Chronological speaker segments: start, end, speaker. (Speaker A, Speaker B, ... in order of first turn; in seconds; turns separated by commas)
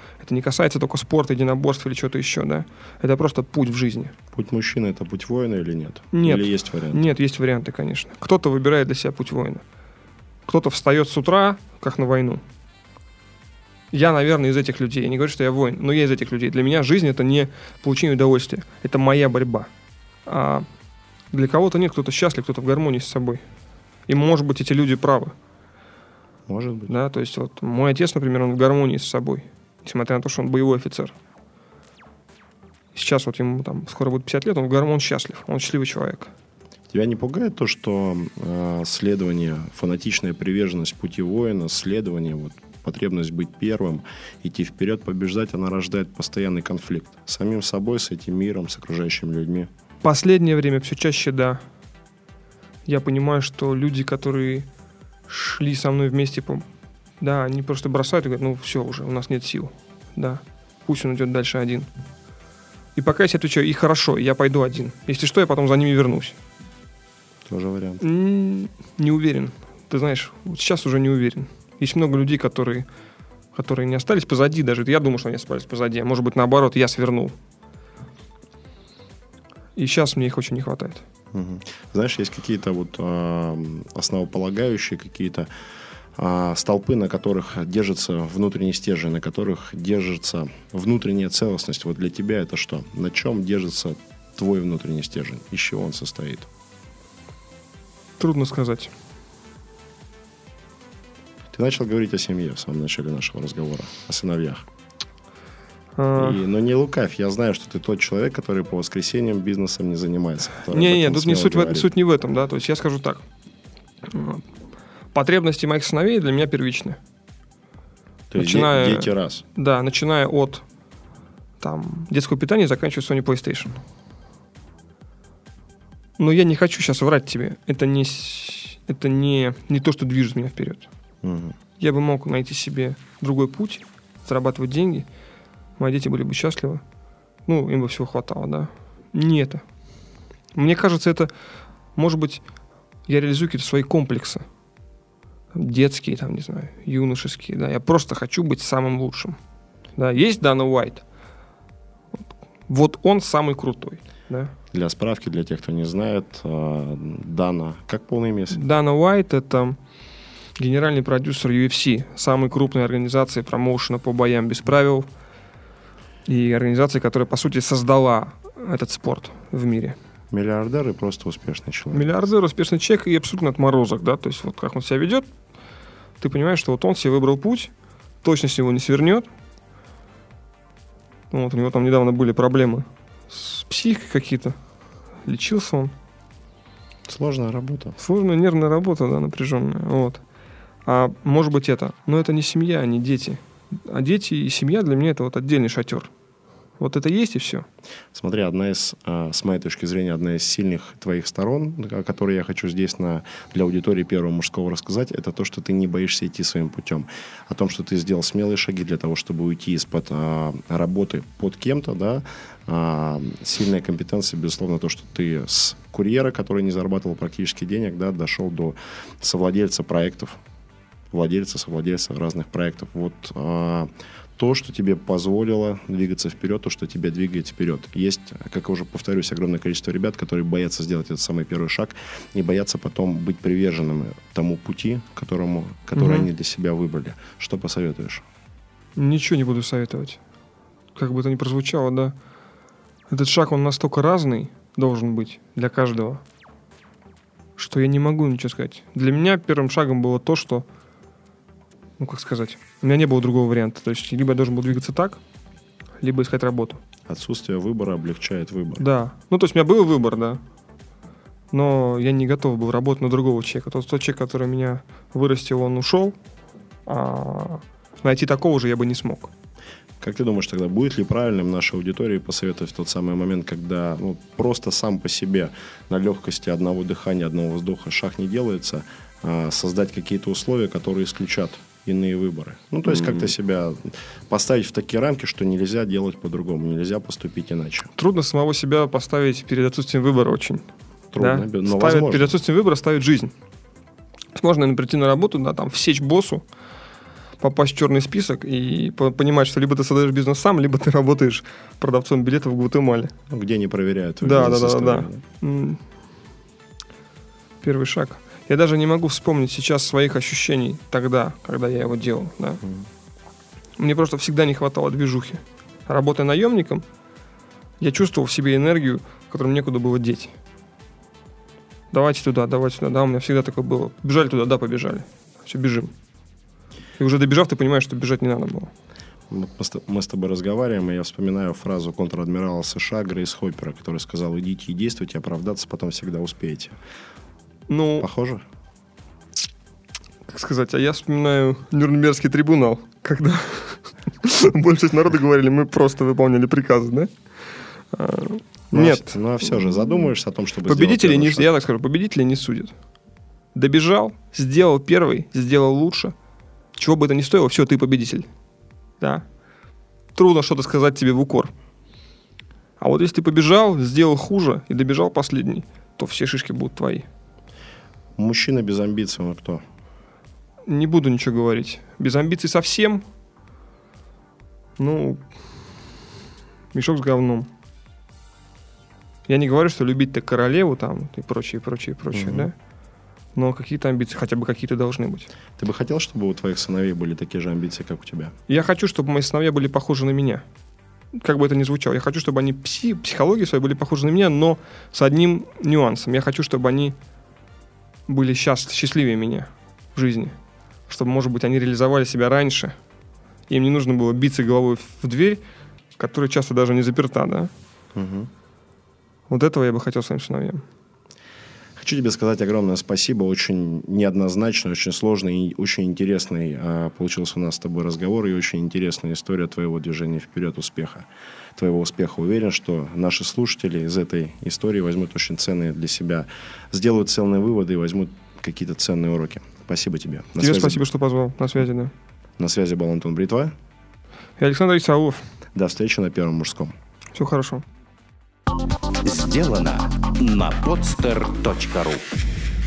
Speaker A: 0.2-4.1, Speaker B: 4.3-7.1, Speaker A: 6.1-9.6, Speaker A: 10.4-12.4, Speaker A: 13.9-19.7, Speaker A: 20.2-20.6, Speaker A: 21.3-23.4, Speaker A: 24.1-25.3, Speaker B: 26.5-26.9, Speaker A: 26.9-31.1, Speaker A: 32.9-36.3, Speaker B: 36.9-49.7, Speaker A: 50.0-51.6, Speaker A: 52.8-54.6, Speaker A: 55.3-56.6, Speaker A: 57.2-61.9, Speaker A: 62.9-66.4, Speaker B: 67.5-68.0, Speaker A: 68.0-72.9, Speaker A: 73.5-77.3, Speaker A: 79.7-81.0, Speaker B: 81.3-85.5, Speaker B: 86.2-96.5, Speaker A: 98.2-98.9, Speaker B: 101.5-104.6, Speaker A: 106.0-106.4, Speaker B: 106.1-111.9, Speaker A: 110.7-113.2, Speaker A: 114.0-114.4, Speaker A: 115.1-117.0, Speaker B: 118.3-119.4, Speaker A: 118.4-120.6, Speaker A: 121.6-123.8, Speaker A: 126.2-130.9, Speaker B: 131.2-131.6, Speaker A: 131.8-135.1, Speaker A: 135.8-136.8, Speaker A: 137.4-139.6, Speaker A: 140.5-141.3, Speaker A: 141.9-142.4, Speaker A: 143.1-144.4, Speaker A: 145.5-149.4, Speaker A: 149.9-151.0, Speaker A: 152.7-154.5, Speaker B: 154.7-158.6, Speaker A: 158.5-159.8, Speaker A: 160.6-165.1, Speaker A: 166.2-169.9, Speaker B: 170.3-172.3, Speaker A: 171.9-175.3, Speaker A: 176.2-179.3, Speaker A: 181.3-184.6, Speaker A: 185.2-185.9, Speaker B: 187.1-187.9, Speaker A: 188.0-190.2, Speaker A: 190.8-196.1, Speaker A: 196.8-197.6, Speaker B: 198.1-220.4, Speaker B: 221.1-238.2, Speaker A: 235.9-236.3, Speaker A: 238.9-240.2, Speaker A: 240.9-242.1, Speaker A: 243.1-246.2, Speaker A: 247.6-250.7, Speaker A: 252.0-255.2, Speaker A: 256.0-256.8, Speaker B: 257.1-258.8, Speaker A: 258.8-260.4, Speaker A: 261.5-266.1, Speaker A: 266.9-269.3, Speaker B: 270.0-287.9, Speaker A: 287.9-290.6, Speaker B: 291.1-292.3, Speaker A: 291.2-293.3, Speaker A: 294.3-296.4, Speaker A: 297.4-303.1, Speaker B: 303.3-305.2, Speaker A: 304.2-305.8, Speaker A: 307.6-312.6, Speaker B: 312.6-312.9, Speaker A: 313.8-316.8, Speaker A: 317.8-320.3, Speaker A: 321.9-325.9, Speaker A: 327.0-328.7, Speaker B: 329.3-336.8, Speaker A: 337.7-338.1, Speaker B: 338.0-338.4, Speaker A: 340.3-347.1, Speaker A: 347.9-349.9, Speaker B: 348.7-351.5, Speaker A: 350.6-352.7, Speaker A: 353.5-356.1, Speaker A: 356.8-358.2, Speaker A: 359.0-359.2, Speaker A: 360.1-361.5, Speaker A: 362.8-367.1, Speaker B: 368.1-369.6, Speaker A: 370.7-373.0, Speaker A: 374.8-375.2, Speaker A: 376.7-377.5, Speaker A: 379.3-382.5, Speaker B: 382.1-382.5, Speaker A: 383.3-385.3, Speaker B: 385.6-388.3, Speaker A: 388.5-390.4, Speaker A: 391.1-396.9, Speaker A: 398.1-400.4, Speaker A: 400.9-402.7, Speaker A: 403.5-405.4, Speaker A: 406.0-407.5, Speaker B: 407.9-408.3, Speaker A: 409.3-410.6, Speaker B: 411.8-430.8, Speaker A: 430.4-431.9, Speaker B: 432.4-433.5, Speaker A: 434.4-435.2, Speaker B: 435.5-436.7, Speaker A: 437.1-437.6, Speaker C: 439.0-442.0